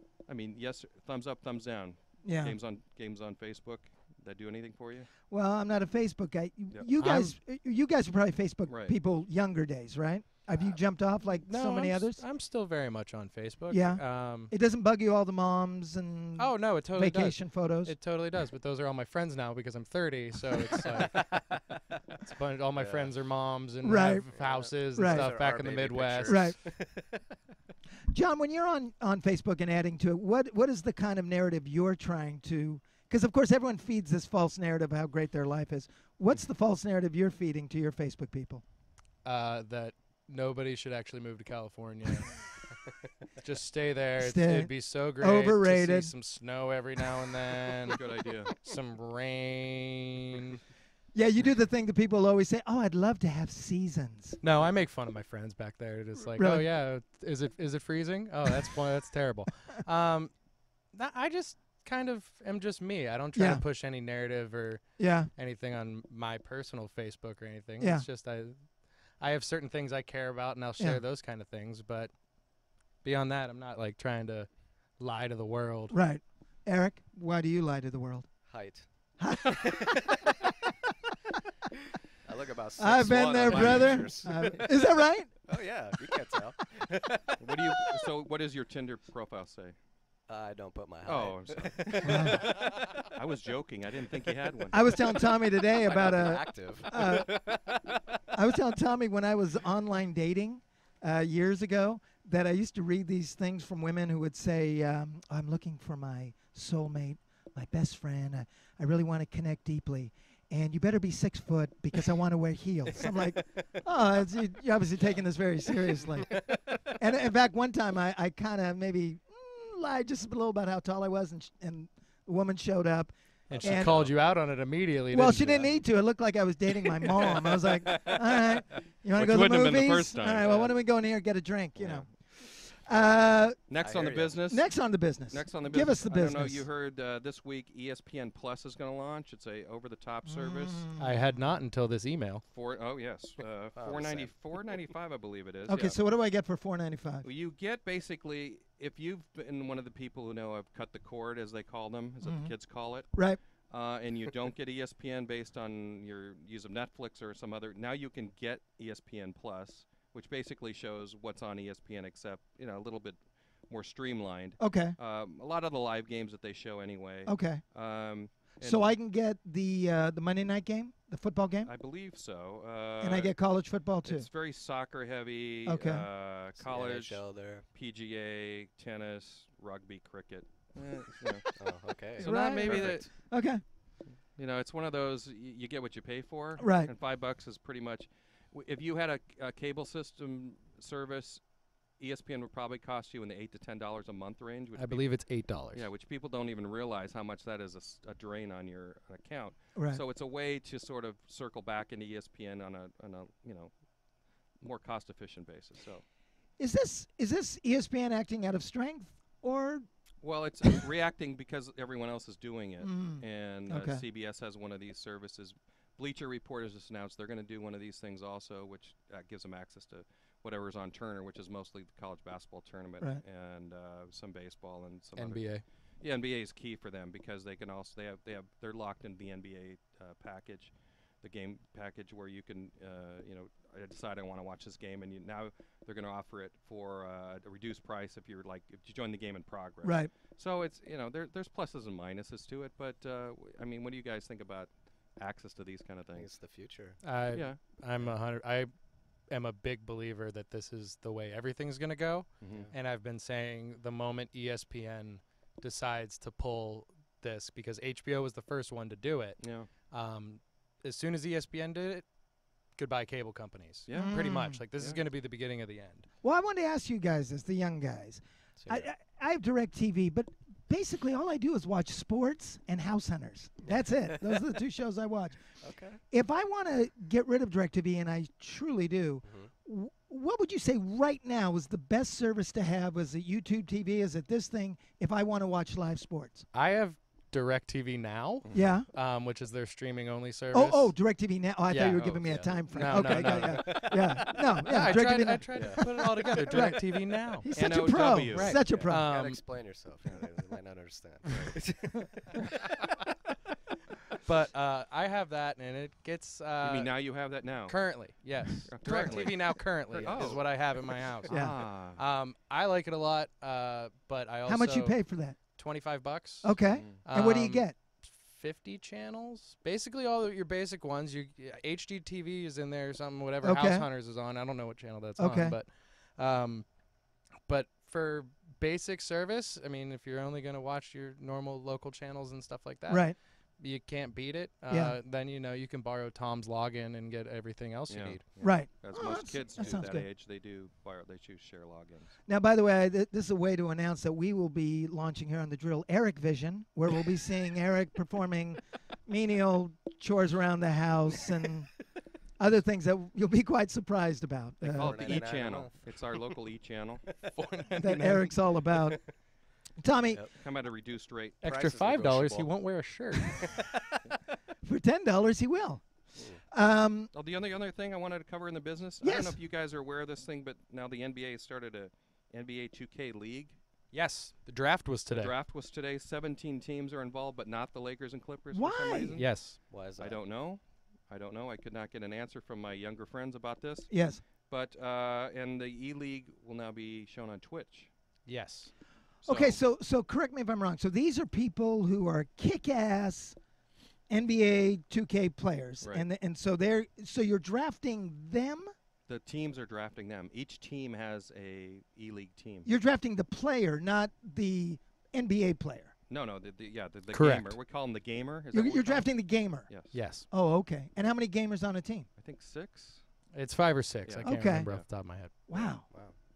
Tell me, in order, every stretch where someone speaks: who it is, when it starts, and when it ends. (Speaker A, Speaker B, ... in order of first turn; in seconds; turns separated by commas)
Speaker A: 0.3-5.1, Speaker B: 2.2-2.5, Speaker B: 5.3-12.2, Speaker C: 7.0-7.3, Speaker A: 8.7-8.9, Speaker C: 11.3-14.5, Speaker B: 13.7-17.9, Speaker C: 16.4-21.5, Speaker D: 20.7-21.6, Speaker C: 22.2-26.5, Speaker D: 22.8-23.1, Speaker B: 23.8-24.3, Speaker D: 24.3-27.3, Speaker B: 24.9-25.3, Speaker B: 26.3-26.6, Speaker B: 28.1-38.6, Speaker C: 39.2-42.6, Speaker C: 43.3-48.0, Speaker B: 44.2-46.1, Speaker D: 47.7-48.0, Speaker A: 47.9-48.5, Speaker C: 48.5-50.6, Speaker B: 51.1-54.4, Speaker C: 54.4-60.3, Speaker B: 56.4-56.7, Speaker C: 60.9-72.1, Speaker B: 63.3-63.6, Speaker B: 65.0-65.3, Speaker B: 67.8-68.0, Speaker C: 73.0-76.0, Speaker B: 75.9-78.3, Speaker D: 78.5-78.9, Speaker B: 79.2-80.3, Speaker D: 82.2-84.9, Speaker B: 82.8-85.3, Speaker A: 83.4-84.6, Speaker D: 85.5-88.0, Speaker A: 87.4-89.7, Speaker D: 90.3-93.1, Speaker A: 91.0-95.0, Speaker B: 92.0-92.4, Speaker D: 94.3-98.0, Speaker B: 94.7-97.4, Speaker B: 98.3-124.0, Speaker D: 112.9-113.8, Speaker D: 116.2-117.0, Speaker C: 123.5-125.8, Speaker D: 123.5-124.1, Speaker B: 125.1-133.6, Speaker D: 127.1-128.4, Speaker A: 129.1-130.7, Speaker A: 131.8-132.1, Speaker A: 133.7-134.7, Speaker D: 133.7-134.4, Speaker B: 134.5-136.6, Speaker A: 135.3-140.9, Speaker B: 140.2-141.2, Speaker C: 141.0-142.4, Speaker A: 142.5-146.0, Speaker D: 143.7-144.9, Speaker B: 145.7-147.2, Speaker A: 147.2-153.1, Speaker B: 152.2-152.5, Speaker B: 153.1-153.4, Speaker A: 153.7-168.9, Speaker B: 164.6-164.9, Speaker B: 167.2-167.6, Speaker B: 168.6-171.7, Speaker A: 171.7-173.3, Speaker B: 173.0-174.3, Speaker A: 174.0-183.3, Speaker B: 175.7-176.1, Speaker D: 176.6-177.6, Speaker D: 181.6-183.1, Speaker B: 182.2-183.6, Speaker A: 184.3-191.4, Speaker B: 186.6-186.9, Speaker A: 192.0-203.7, Speaker C: 194.8-195.9, Speaker B: 199.7-200.0, Speaker A: 204.6-206.0, Speaker B: 206.6-209.8, Speaker A: 210.2-246.3, Speaker B: 212.8-214.0, Speaker C: 225.2-225.6, Speaker B: 239.8-240.1, Speaker D: 246.1-247.0, Speaker C: 247.0-248.7, Speaker A: 247.3-247.6, Speaker C: 249.3-262.1, Speaker A: 252.4-252.7, Speaker A: 259.4-259.7, Speaker C: 262.7-266.1, Speaker A: 263.9-265.0, Speaker B: 263.9-264.6, Speaker B: 266.2-275.4, Speaker D: 268.6-268.9, Speaker D: 273.7-274.3, Speaker D: 275.6-276.0, Speaker B: 276.1-286.5, Speaker D: 279.2-279.5, Speaker C: 286.5-290.9, Speaker A: 288.4-288.7, Speaker B: 288.5-288.9, Speaker B: 290.5-299.1, Speaker C: 291.7-297.5, Speaker A: 291.9-292.3, Speaker D: 292.2-294.7, Speaker D: 295.5-296.7, Speaker A: 297.5-298.6, Speaker C: 298.3-299.4, Speaker D: 298.6-302.7, Speaker C: 304.2-306.9, Speaker A: 306.6-308.1, Speaker C: 307.7-326.7, Speaker A: 308.7-312.0, Speaker D: 308.9-309.2, Speaker D: 310.1-310.4, Speaker B: 311.3-311.6, Speaker B: 314.4-315.4, Speaker B: 316.4-317.8, Speaker A: 316.7-317.0, Speaker B: 323.4-323.9, Speaker B: 325.2-325.6, Speaker C: 327.4-338.2, Speaker B: 332.9-333.2, Speaker B: 334.7-335.0, Speaker A: 337.9-342.1, Speaker B: 338.4-340.1, Speaker B: 342.3-351.7, Speaker B: 352.4-355.1, Speaker A: 354.6-357.1, Speaker D: 354.8-356.4, Speaker D: 357.1-357.9, Speaker C: 357.4-358.4, Speaker B: 357.8-359.0, Speaker D: 358.8-359.1, Speaker B: 359.8-360.2, Speaker A: 360.3-361.4, Speaker D: 361.4-362.5, Speaker C: 361.4-363.5, Speaker D: 363.1-364.0, Speaker B: 364.6-365.9, Speaker B: 366.5-367.1, Speaker A: 367.1-373.6, Speaker B: 369.0-369.4, Speaker C: 373.9-375.3, Speaker A: 375.1-379.3, Speaker B: 378.5-379.2, Speaker C: 379.1-379.6, Speaker D: 379.7-380.2, Speaker A: 380.0-387.9, Speaker B: 383.9-384.2, Speaker C: 388.2-388.7, Speaker A: 389.2-389.6, Speaker B: 389.2-393.4, Speaker B: 394.1-398.7, Speaker A: 399.1-402.7, Speaker B: 402.6-405.9, Speaker A: 406.1-410.0, Speaker C: 407.1-407.6, Speaker B: 408.5-412.1, Speaker C: 409.9-410.3, Speaker A: 412.2-413.0, Speaker C: 413.3-415.3, Speaker A: 414.0-414.9, Speaker B: 414.2-414.7, Speaker B: 415.5-415.9, Speaker D: 415.9-416.1